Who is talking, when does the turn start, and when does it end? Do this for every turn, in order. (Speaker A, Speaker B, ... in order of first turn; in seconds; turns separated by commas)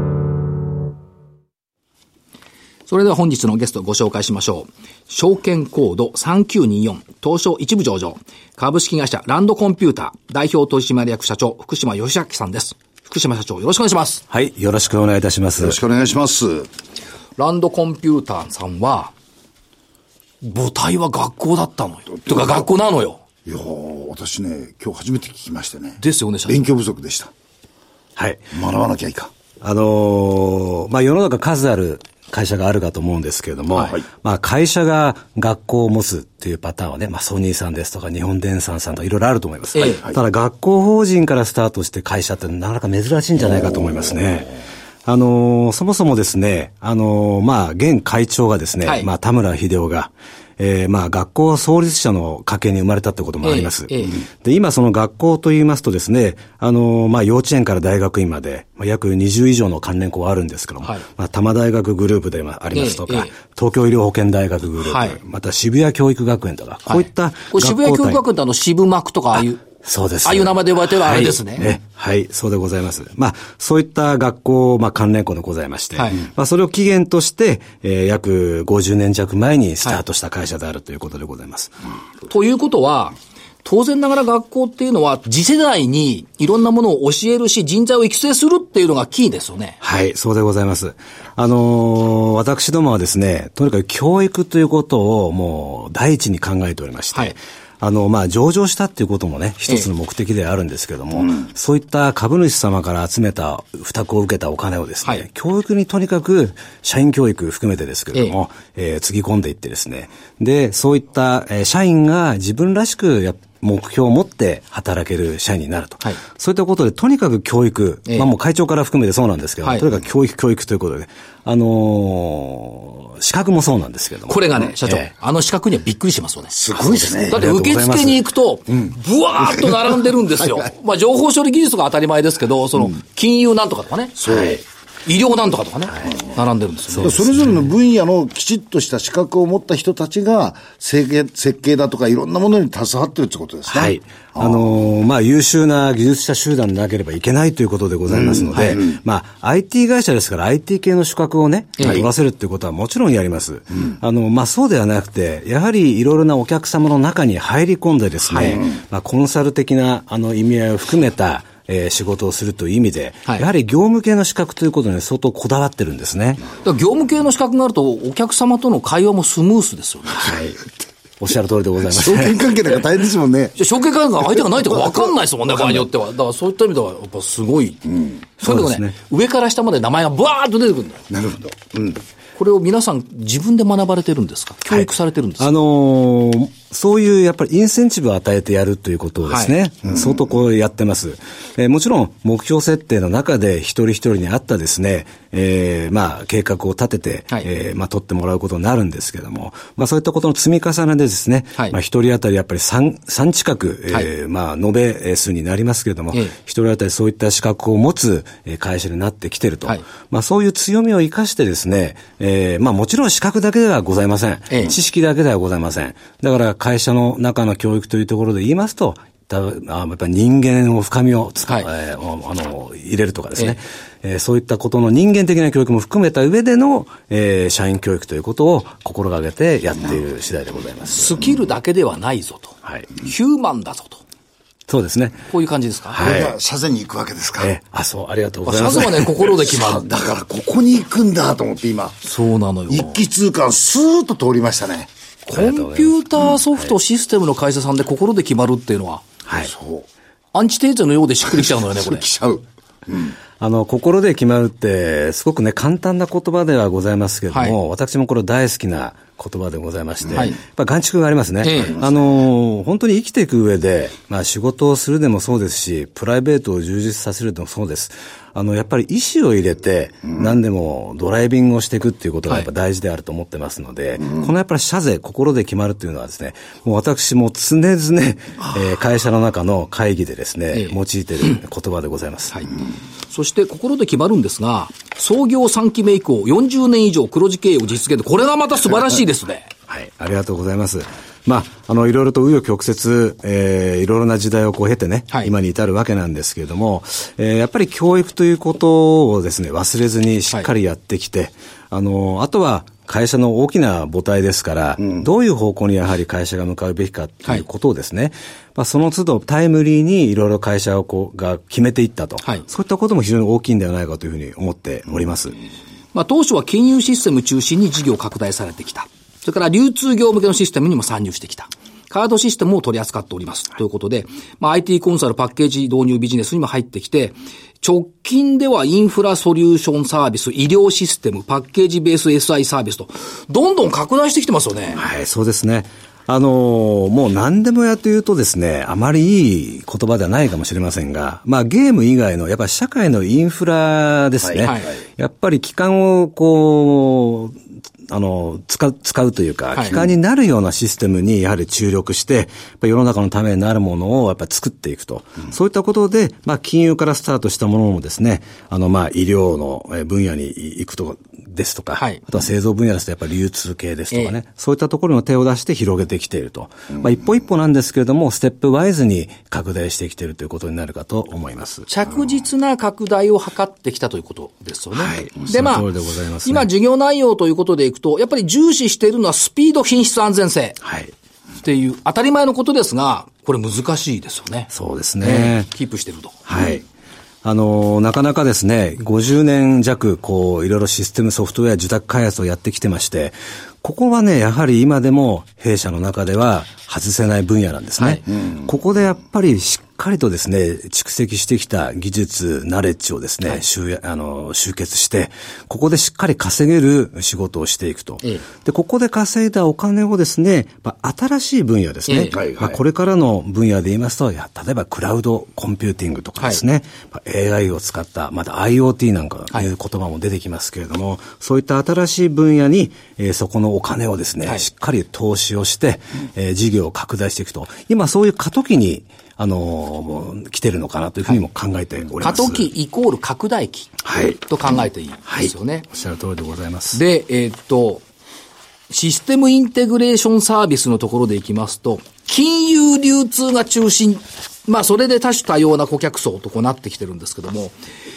Speaker A: 2.9-14.2, Speaker B: 14.3-15.8, Speaker C: 15.6-16.7, Speaker A: 17.4-19.1, Speaker A: 20.4-23.2, Speaker C: 22.2-22.6, Speaker C: 23.4-27.3, Speaker A: 26.0-26.7, Speaker B: 28.1-28.4, Speaker C: 28.5-29.3, Speaker B: 29.6-68.2, Speaker A: 39.7-40.0, Speaker A: 53.4-54.2, Speaker A: 62.7-63.3, Speaker A: 64.8-65.2, Speaker A: 66.9-69.6, Speaker B: 69.8-81.8, Speaker A: 70.2-71.7, Speaker A: 76.0-76.2, Speaker A: 82.3-89.8, Speaker B: 89.8-125.1, Speaker A: 119.6-119.9, Speaker A: 124.3-126.5, Speaker C: 126.5-127.5, Speaker B: 126.8-128.2, Speaker A: 127.2-134.3, Speaker C: 134.2-134.6, Speaker B: 134.3-134.6, Speaker A: 135.1-137.3, Speaker B: 136.9-137.6, Speaker C: 137.0-144.7, Speaker B: 143.7-166.4, Speaker C: 148.1-148.9, Speaker A: 148.5-148.8, Speaker A: 151.8-152.0, Speaker A: 158.3-158.6, Speaker A: 166.6-170.3, Speaker B: 170.2-170.6, Speaker B: 171.2-172.4, Speaker C: 171.9-173.6, Speaker A: 173.6-181.0, Speaker B: 178.4-178.9, Speaker C: 181.1-182.0, Speaker A: 182.4-185.5, Speaker B: 184.7-231.2, Speaker A: 189.2-189.5, Speaker A: 214.5-214.7, Speaker A: 230.9-234.0, Speaker B: 234.7-235.2, Speaker A: 235.3-236.0, Speaker B: 235.9-236.3, Speaker C: 236.0-237.5, Speaker B: 237.4-239.1, Speaker A: 238.4-239.8, Speaker C: 239.4-242.0, Speaker A: 242.0-243.0, Speaker C: 242.7-244.9, Speaker A: 245.3-249.0, Speaker B: 245.3-246.7, Speaker C: 249.4-249.9, Speaker A: 250.3-252.1, Speaker C: 251.4-253.1, Speaker B: 253.4-282.5, Speaker A: 257.3-257.6, Speaker A: 261.4-261.8, Speaker A: 280.5-281.4, Speaker A: 283.1-289.5, Speaker B: 289.7-315.4, Speaker A: 315.9-334.8, Speaker B: 334.7-347.4, Speaker A: 344.4-344.7, Speaker B: 347.9-371.7, Speaker A: 361.8-362.0, Speaker A: 371.7-375.7, Speaker B: 374.7-376.5, Speaker A: 376.2-380.6, Speaker B: 380.6-380.9, Speaker A: 381.4-386.2, Speaker B: 384.5-385.5, Speaker B: 386.3-386.6, Speaker B: 387.2-432.5, Speaker A: 397.8-398.0, Speaker A: 411.9-412.1, Speaker C: 412.1-412.6, Speaker A: 432.0-435.7, Speaker B: 433.8-434.2, Speaker B: 435.1-436.8, Speaker A: 436.7-437.8, Speaker A: 438.7-447.5